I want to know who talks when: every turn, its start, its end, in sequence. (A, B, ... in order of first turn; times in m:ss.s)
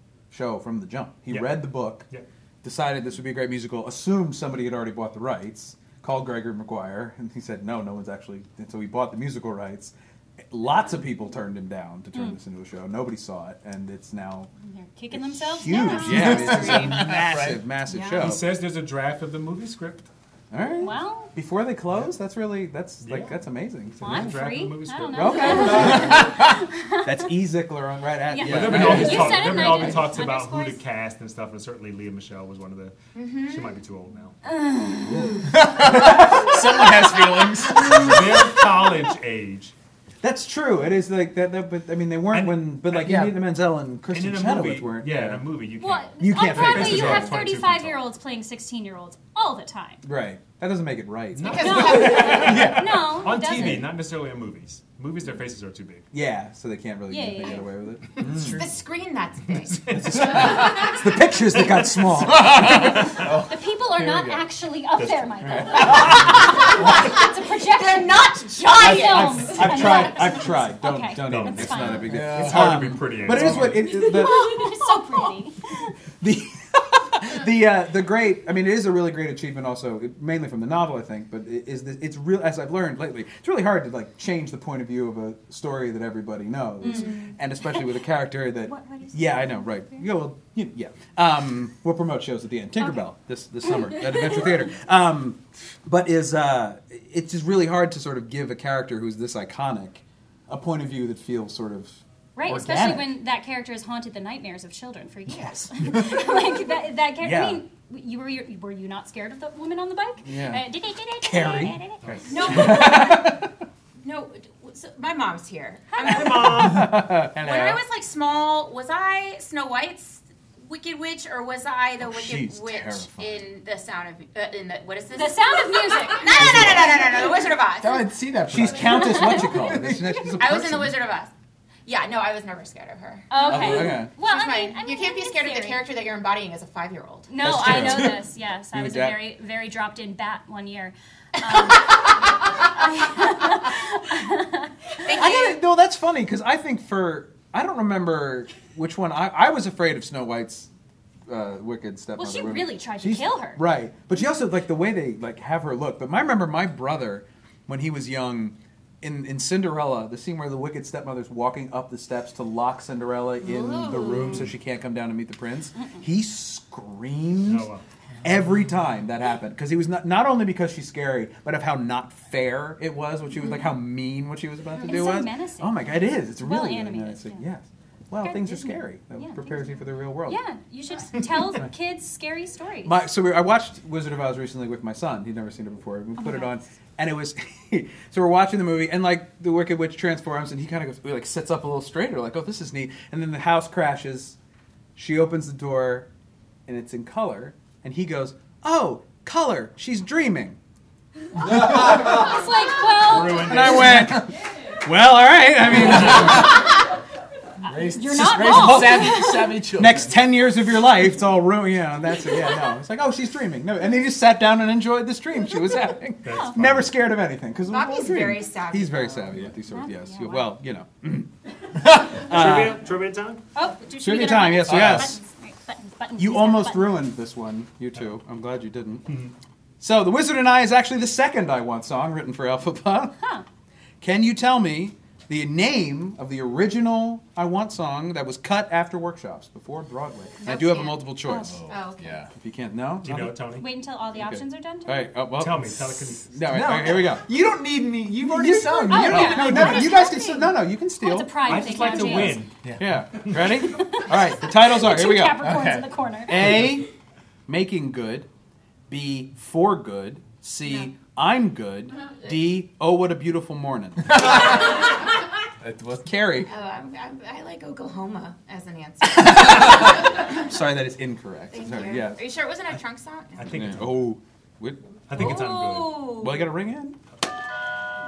0:00.3-0:02.1 A
0:01.3-0:02.3 B
0:02.6-0:09.9 A
0:10.5-0:14.5 A
0:14.6-0:17.0 C
0:15.1-0:18.5 A
0:15.7-0:16.3 D
0:16.1-0:17.6 E
0:18.1-0:20.1 B
0:20.5-0:24.4 A
0:20.8-0:21.3 C
0:23.0-0:23.4 B
0:24.0-0:26.0 B
0:24.0-0:27.1 C
0:25.1-0:26.5 A
0:25.8-0:26.5 E
0:27.0-0:30.0 A
0:28.3-0:30.8 C
0:28.4-0:34.4 B
0:33.2-0:33.8 D
0:34.4-0:36.3 C
0:35.1-0:36.6 A
0:35.5-0:38.4 E
0:36.8-0:37.5 C
0:37.8-0:39.7 B
0:40.2-0:45.4 A
0:42.3-0:43.2 B
0:43.0-0:43.4 E
0:44.1-0:48.0 B
0:45.8-0:50.0 C
0:46.2-0:47.5 A
0:50.0-0:53.0 A
0:51.3-0:52.5 B
0:51.4-0:52.6 D
0:51.6-0:53.8 C
0:52.3-0:52.9 E
0:53.1-0:56.1 B
0:53.5-0:53.8 A
0:56.1-0:58.6 A
0:57.1-0:57.7 C
0:58.2-0:58.8 E
0:58.2-0:58.6 B
0:58.6-0:59.8 D
0:59.7-1:00.4 B
0:59.9-1:03.1 A
1:00.2-1:00.7 E
1:02.1-1:03.6 E
1:02.5-1:12.1 C
1:03.0-1:03.2 B
1:05.0-1:06.5 B
1:05.4-1:07.0 A
1:07.6-1:09.4 D
1:08.8-1:14.6 A
1:11.2-1:14.1 B
1:12.1-1:13.5 E
1:13.8-1:15.9 C
1:16.2-1:43.1 A
1:26.8-1:27.8 C
1:27.0-1:27.3 D
1:28.7-1:30.1 C
1:33.9-1:34.4 C
1:42.4-1:53.3 C
1:45.3-1:46.3 A
1:47.2-1:47.6 A
1:50.2-1:50.6 A
1:51.2-1:51.8 A
1:52.0-1:52.4 B
1:52.3-1:52.9 D
1:52.4-1:53.5 A
1:54.0-1:56.3 D
1:56.0-1:56.9 B
1:56.0-1:56.3 C
1:56.1-1:57.8 A
1:57.4-2:08.1 D
2:02.0-2:03.4 A
2:05.2-2:07.3 C
2:06.3-2:07.3 A
2:07.7-2:10.2 E
2:08.5-2:11.0 A
2:08.8-2:09.8 C
2:10.4-2:11.3 D
2:11.9-2:17.3 D
2:13.3-2:15.8 C
2:13.4-2:14.1 A
2:17.3-2:25.0 C
2:17.4-2:19.2 A
2:25.0-2:25.6 D
2:25.1-2:30.7 A
2:31.3-2:47.7 A
2:32.2-2:33.6 C
2:43.4-2:44.4 D
2:47.5-2:47.8 B
2:48.2-3:00.4 A
2:54.8-2:57.4 C
2:58.2-3:03.0 C
3:01.4-3:01.7 A
3:02.8-3:14.4 A
3:06.2-3:06.6 C
3:15.0-3:16.1 A
3:16.7-3:20.6 A
3:21.4-3:24.3 E
3:21.5-3:22.1 A
3:21.6-3:24.0 C
3:23.4-3:26.7 A
3:25.7-3:26.6 E
3:27.6-3:30.2 E
3:27.7-3:29.6 C
3:28.4-3:41.3 A
3:36.2-3:36.9 B
3:37.7-3:39.4 D
3:39.6-3:40.5 C
3:42.0-3:42.8 A
3:42.1-3:43.4 B
3:43.6-3:47.0 C
3:44.0-3:45.2 A
3:44.7-3:45.1 E
3:46.2-3:49.2 A
3:49.1-3:49.3 B
3:49.8-3:53.2 A
3:54.0-4:01.6 A
4:00.4-4:01.0 D
4:01.4-4:02.3 E
4:01.7-4:02.0 D
4:02.3-4:03.3 A
4:03.0-4:03.7 B
4:03.6-4:05.1 C
4:04.9-4:07.3 A
4:05.4-4:06.5 B
4:06.5-4:09.9 E
4:08.2-4:15.6 A
4:08.9-4:12.5 C
4:11.4-4:12.6 B
4:12.6-4:13.3 E
4:13.5-4:16.7 C
4:15.4-4:16.4 E
4:16.3-4:16.9 A
4:17.5-4:18.3 A
4:18.9-4:24.7 A
4:20.7-4:20.9 D
4:24.1-4:24.5 E
4:25.6-4:26.2 E
4:26.0-4:26.5 A
4:26.5-4:29.9 D
4:29.1-4:32.2 A
4:31.5-4:33.5 D
4:33.4-4:34.0 B
4:33.5-4:35.3 A
4:35.1-4:36.2 B
4:35.2-4:36.3 C
4:35.2-4:35.9 D
4:36.2-4:37.0 A